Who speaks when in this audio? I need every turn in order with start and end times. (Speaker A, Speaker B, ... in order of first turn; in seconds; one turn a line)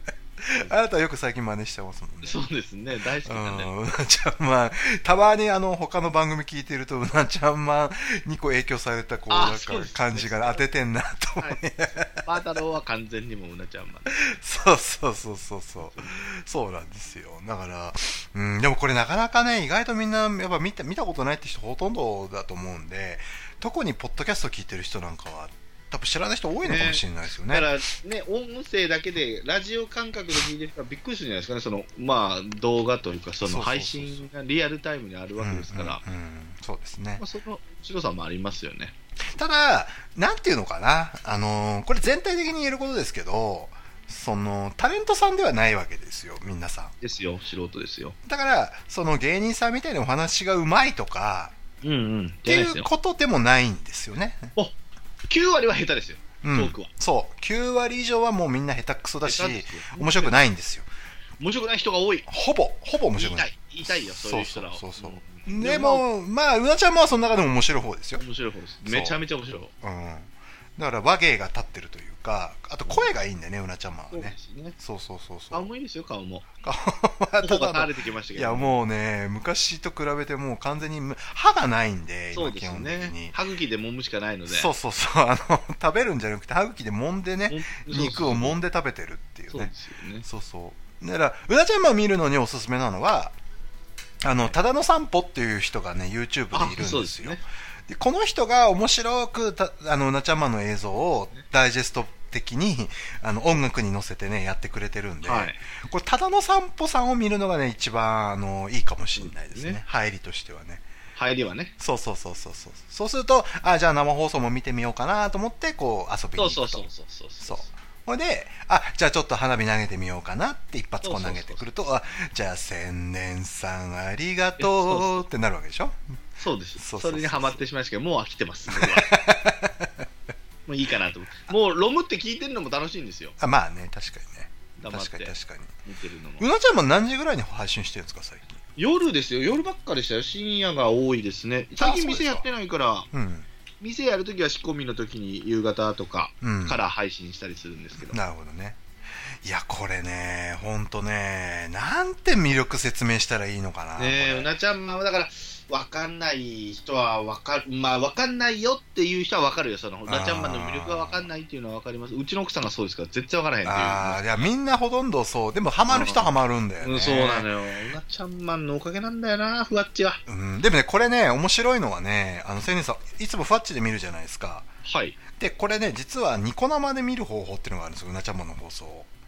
Speaker A: 0.4-2.4
Speaker B: 2.2-3.7
Speaker A: 3.2-12.2
Speaker B: 9.3-10.6
Speaker B: 11.4-14.1
Speaker A: 14.1-27.7
Speaker B: 15.8-16.3
Speaker B: 26.6-36.0
Speaker A: 33.4-34.3
Speaker A: 35.4-37.2
Speaker B: 37.2-38.9
Speaker A: 39.3-46.9
Speaker B: 47.0-48.2
Speaker A: 48.2-51.5
Speaker B: 51.8-52.9
Speaker A: 52.5-54.5
Speaker B: 55.3-56.9
Speaker A: 56.4-60.9
Speaker B: 59.2-60.4
Speaker B: 61.4-62.3
Speaker A: 62.3-68.2
Speaker B: 63.1-66.0
Speaker B: 68.2-69.7
Speaker A: 68.8-69.2
Speaker A: 69.8-75.7
Speaker B: 72.8-73.1
Speaker B: 74.1-74.8
Speaker B: 75.5-76.5
Speaker A: 76.6-83.3
Speaker B: 77.4-78.7
Speaker B: 82.3-84.7
Speaker A: 84.5-89.7
Speaker B: 87.5-88.6
Speaker B: 89.5-90.2
Speaker A: 90.2-93.3
Speaker A: 94.2-110.8
Speaker B: 96.5-97.4
Speaker B: 105.2-105.6
Speaker B: 109.2-109.8
Speaker B: 111.2-111.7
Speaker A: 111.8-116.9
Speaker B: 116.3-117.7
Speaker A: 117.4-126.0
Speaker B: 121.0-121.6
Speaker B: 124.6-125.2
Speaker B: 126.4-129.1
Speaker A: 126.8-127.6
Speaker A: 128.7-130.1
Speaker B: 130.7-133.3
Speaker A: 133.4-135.8
Speaker B: 134.8-135.3
Speaker B: 135.8-136.4
Speaker A: 136.4-138.6
Speaker B: 138.8-143.1
Speaker A: 141.8-142.5
Speaker A: 143.1-143.5
Speaker B: 143.8-148.2
Speaker A: 146.4-146.8
Speaker A: 148.1-148.8
Speaker A: 149.4-154.5
Speaker B: 154.0-164.4
Speaker A: 160.1-161.3
Speaker A: 163.6-167.5
Speaker B: 165.9-166.3
Speaker B: 166.8-170.2
Speaker A: 170.2-174.7
Speaker B: 174.8-175.2
Speaker A: 175.3-179.1